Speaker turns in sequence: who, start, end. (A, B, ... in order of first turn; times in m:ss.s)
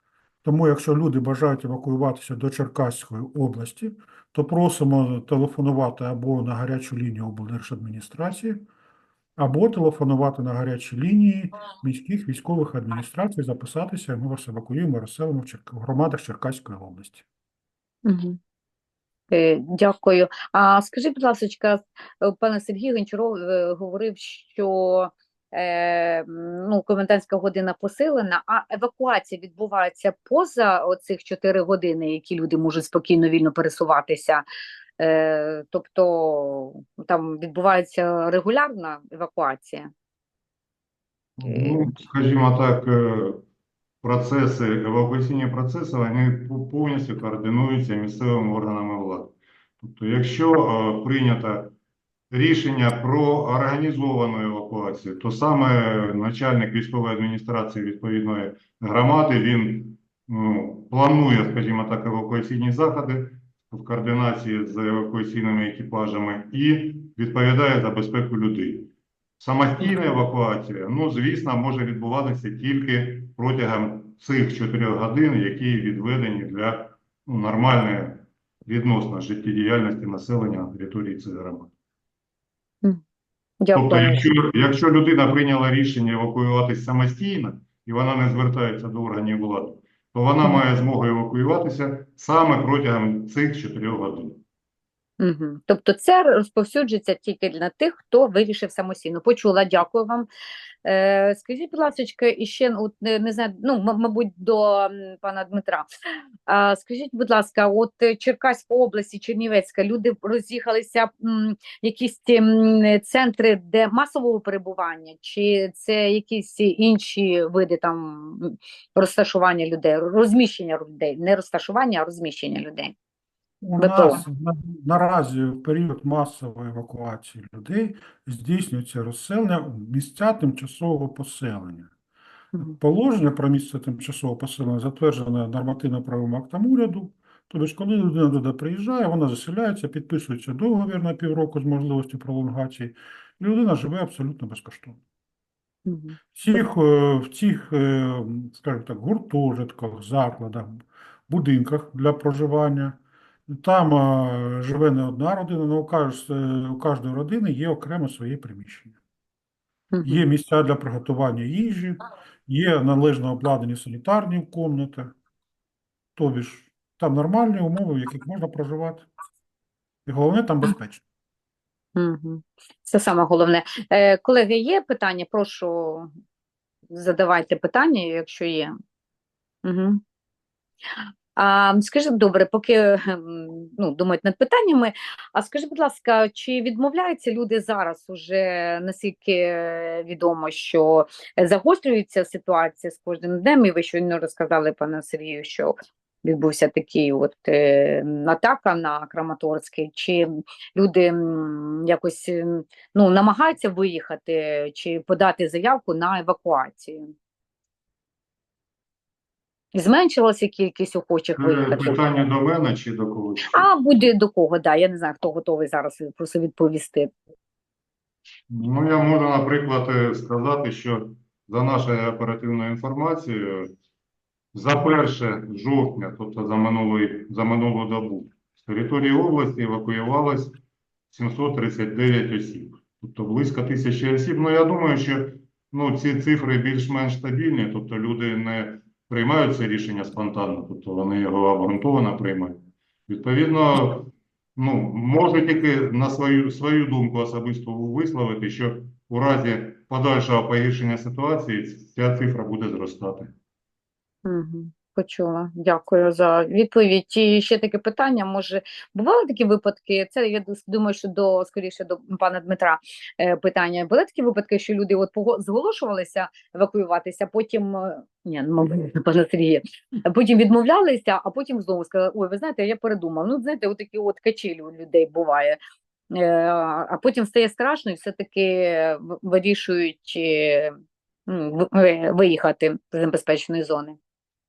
0:00.4-0:08.6 A
0:09.4-0:17.2 A
0:18.0-0:18.4 B
0:19.3-0:34.4 B
0:35.0-0:39.9 B
0:41.4-0:43.4 C
0:41.4-0:42.0 B
0:44.0-0:51.7 C
0:52.3-1:21.7 C
1:23.6-1:24.2 B
1:23.7-1:34.4 C
1:35.2-1:40.3 B
1:40.8-1:45.9 B
1:46.5-2:02.9 B
2:03.6-2:11.9 A
2:03.8-2:04.2 B
2:12.6-2:25.0 A
2:25.8-2:26.6 B
2:26.3-2:39.0 A
2:39.9-2:40.2 B
2:40.0-2:45.1 A
2:46.2-2:49.1 A
2:50.0-2:51.0 A
2:52.0-2:56.1 B
2:56.9-2:58.7 B
2:59.6-3:00.0 B
3:01.0-3:27.0 B
3:29.7-3:32.0 B
3:31.4-3:33.7 C
3:33.5-3:37.1 B
3:38.5-3:43.7 C
3:44.5-3:50.6 C
3:51.1-4:13.3 C
4:14.2-4:35.6 B
4:36.1-4:40.8 B
4:41.3-4:44.0 B